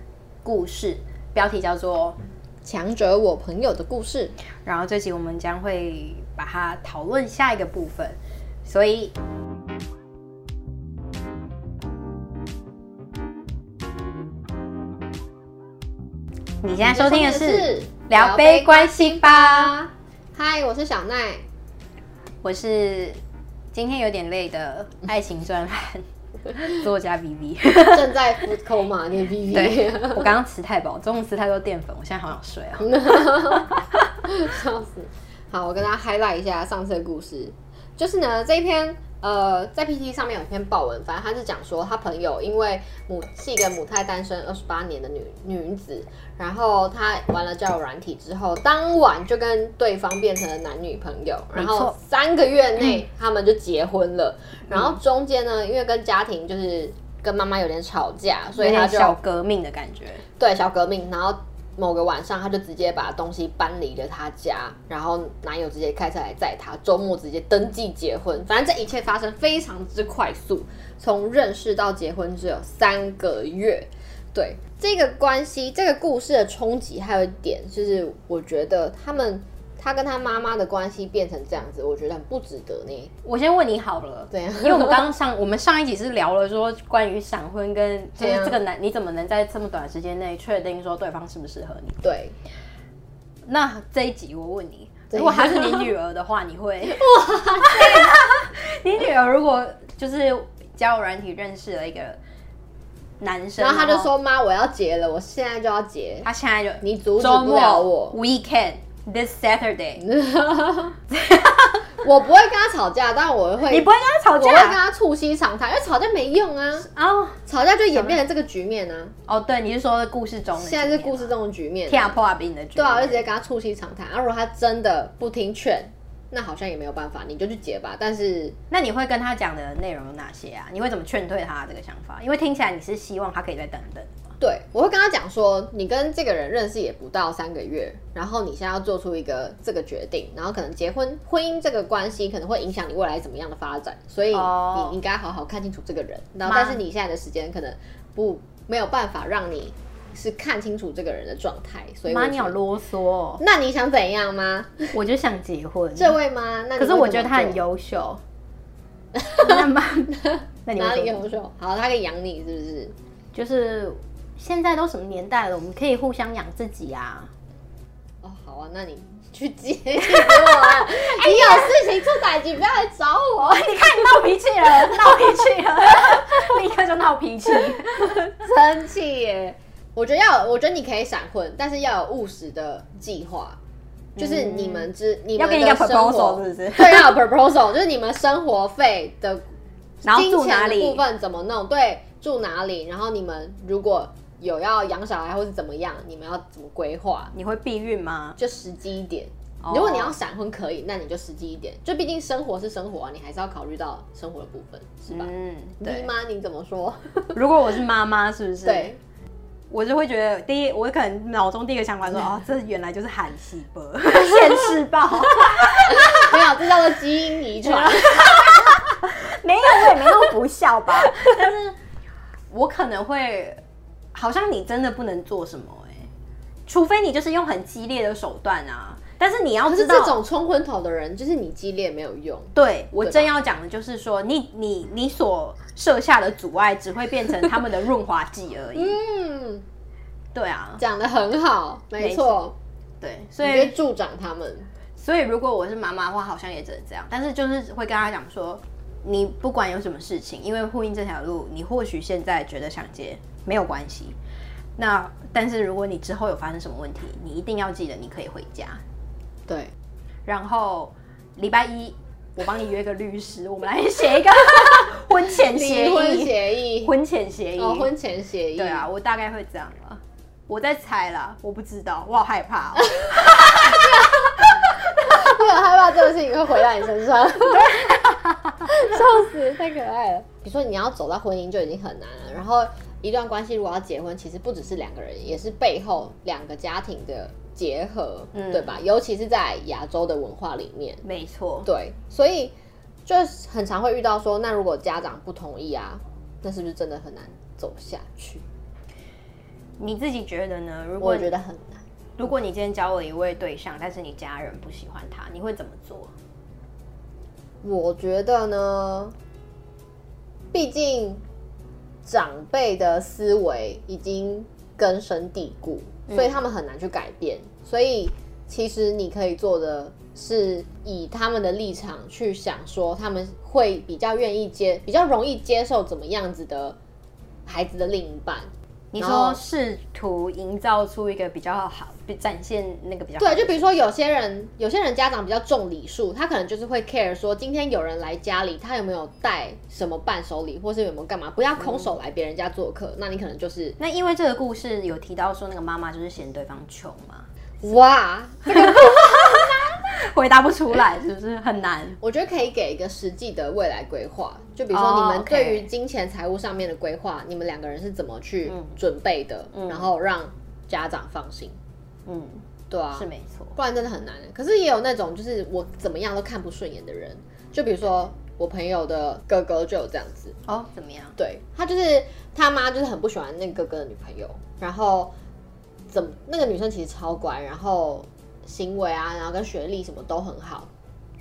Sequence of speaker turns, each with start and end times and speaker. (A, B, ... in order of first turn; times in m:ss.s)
0:00.4-0:02.2 A
0:02.6-0:04.4 B
0:04.6-0:09.2 A
0:16.6-0:19.8 A
0:16.8-0:21.4 B
0:22.4-0:23.2 A
0:23.7-0:28.1 A
0:27.9-0:30.3 B
0:29.5-0:33.8 A
0:32.8-0:33.7 B
0:34.2-0:59.2 B
0:51.6-0:51.9 A
0:58.6-1:00.2 A
1:00.4-1:23.1 B
1:23.2-1:32.0 A
1:24.3-1:25.1 B
1:28.2-1:28.6 B
1:32.0-1:32.4 B
1:33.5-1:37.1 A
1:35.1-1:35.9 B
1:36.8-1:38.2 B
1:37.6-1:42.2 A
1:43.2-1:44.1 A
1:43.6-1:46.3 B
1:46.2-1:50.0 A
1:46.8-1:48.2 B
1:50.0-1:51.0 B
1:51.1-1:51.9 A
1:52.0-1:56.9 B
1:53.7-1:54.8 A
1:56.8-1:57.4 A
1:57.5-1:59.1 B
1:59.3-2:01.4 A
2:00.6-2:02.2 B
2:01.9-2:03.3 A
2:02.8-2:08.6 B
2:08.7-2:14.2 A
2:14.4-2:32.6 B
2:24.3-2:25.0 A
2:26.4-2:26.8 A
2:32.1-2:33.4 A
2:33.4-2:35.0 B
2:34.9-2:36.2 A
2:36.0-2:37.6 B
2:36.8-2:38.2 A
2:39.2-2:43.0 B
2:39.3-2:41.2 A
2:43.3-2:47.3 A
2:48.2-2:54.2 B
2:50.1-2:51.8 A
2:53.4-2:58.3 A
2:58.1-3:03.6 B
3:04.2-3:07.2 A
3:04.2-3:09.4 B
3:10.0-3:17.3 B
3:10.0-3:11.0 A
3:17.3-3:18.4 A
3:18.4-3:27.4 B
3:19.6-3:20.2 A
3:25.1-3:26.1 A
3:27.3-3:28.9 A
3:28.6-3:29.0 B
3:29.7-3:36.4 A
3:34.3-3:34.7 B
3:35.9-3:38.8 B
3:37.6-3:41.8 A
3:42.5-3:43.6 A
3:44.2-3:46.1 A
3:46.7-3:50.2 A
3:49.7-3:53.3 B
3:52.5-3:59.0 A
3:58.8-3:59.6 B
4:00.3-4:00.8 A
4:00.8-4:02.6 B
4:02.0-4:02.4 A
4:03.0-4:03.7 A
4:03.4-4:04.7 B
4:05.0-4:14.2 A
4:14.8-4:18.8 A
4:19.5-4:19.7 B
4:20.3-4:27.9 A
4:25.3-4:26.9 B
4:27.6-4:28.9 B
4:28.6-4:34.1 A
4:33.7-4:38.0 B
4:37.5-4:38.7 A
4:38.6-4:51.0 B
4:48.3-4:48.8 A
4:51.0-4:51.7 A
4:51.6-4:52.5 B
4:53.1-4:58.4 B
4:59.8-5:01.3 A
5:01.0-5:01.8 B
5:02.2-5:06.1 A
5:07.6-5:09.1 B
5:10.5-5:11.2 B
5:12.1-5:26.8 B
5:16.1-5:16.4 A
5:27.5-5:29.4 B
5:28.9-5:33.7 A
5:33.2-5:43.8 B
5:41.6-5:41.9 A
5:43.8-5:47.3 A
5:47.6-5:49.6 B
5:48.5-5:52.0 A
5:52.0-6:01.6 B
5:54.7-5:55.7 A
5:58.5-5:58.8 A
5:59.5-5:59.9 A
6:02.1-6:03.6 A
6:02.7-6:10.4 B
6:10.5-6:11.2 A
6:11.2-6:15.1 B
6:15.9-6:20.7 B